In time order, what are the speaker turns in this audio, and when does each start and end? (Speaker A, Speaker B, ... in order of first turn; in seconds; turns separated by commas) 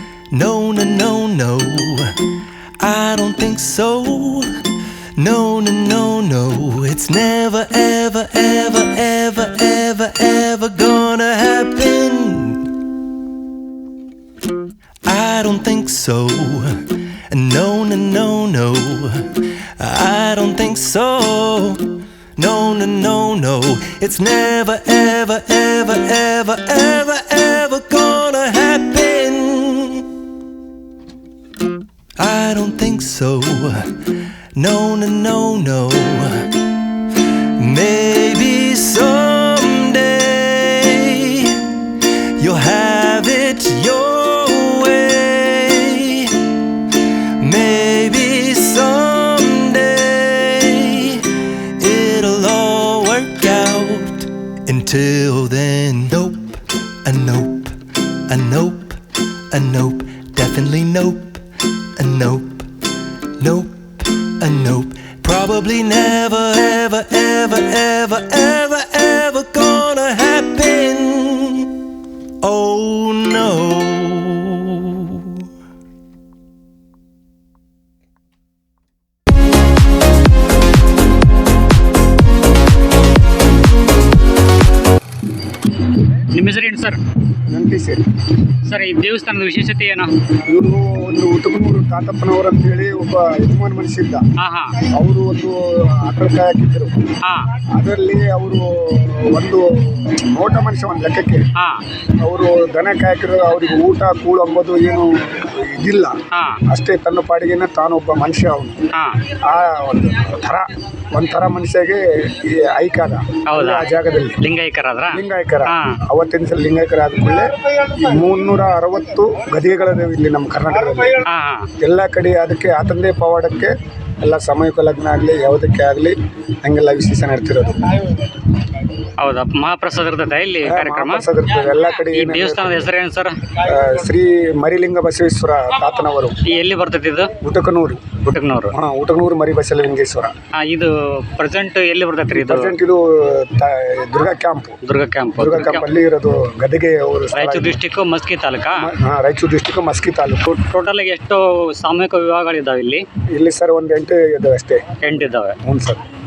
Speaker A: 0.3-2.2, Speaker A: 2.8-4.5, Speaker A: 5.2-12.7, Speaker A: 15.0-30.1, Speaker A: 32.2-33.9, Speaker A: 34.5-36.6, Speaker A: 37.3-46.5, Speaker A: 47.3-59.0, Speaker A: 59.5-62.7, Speaker A: 63.4-71.8, Speaker A: 72.4-75.4, Speaker B: 86.1-87.0, Speaker C: 87.5-88.0, Speaker B: 88.6-90.1, Speaker C: 90.4-94.3, Speaker B: 94.4-94.8, Speaker C: 94.9-97.0, Speaker B: 97.2-97.5, Speaker C: 97.7-101.5, Speaker B: 101.5-101.8, Speaker C: 102.2-106.2, Speaker B: 106.3-106.6, Speaker C: 106.7-108.8, Speaker B: 108.9-109.2, Speaker C: 109.4-114.4, Speaker B: 113.5-113.9, Speaker B: 114.4-116.0, Speaker C: 115.1-121.2, Speaker B: 121.2-121.7, Speaker C: 121.8-128.1, Speaker B: 129.2-131.2, Speaker C: 130.6-132.9, Speaker B: 132.1-133.4, Speaker C: 133.6-136.4, Speaker B: 136.4-137.3, Speaker C: 137.4-140.3, Speaker B: 138.2-138.7, Speaker B: 140.5-142.7, Speaker C: 142.3-144.8, Speaker B: 144.8-145.9, Speaker C: 145.4-147.8, Speaker B: 147.3-148.8, Speaker C: 148.8-150.5, Speaker B: 150.5-153.0, Speaker C: 153.3-154.8, Speaker B: 155.0-155.6, Speaker C: 155.6-156.0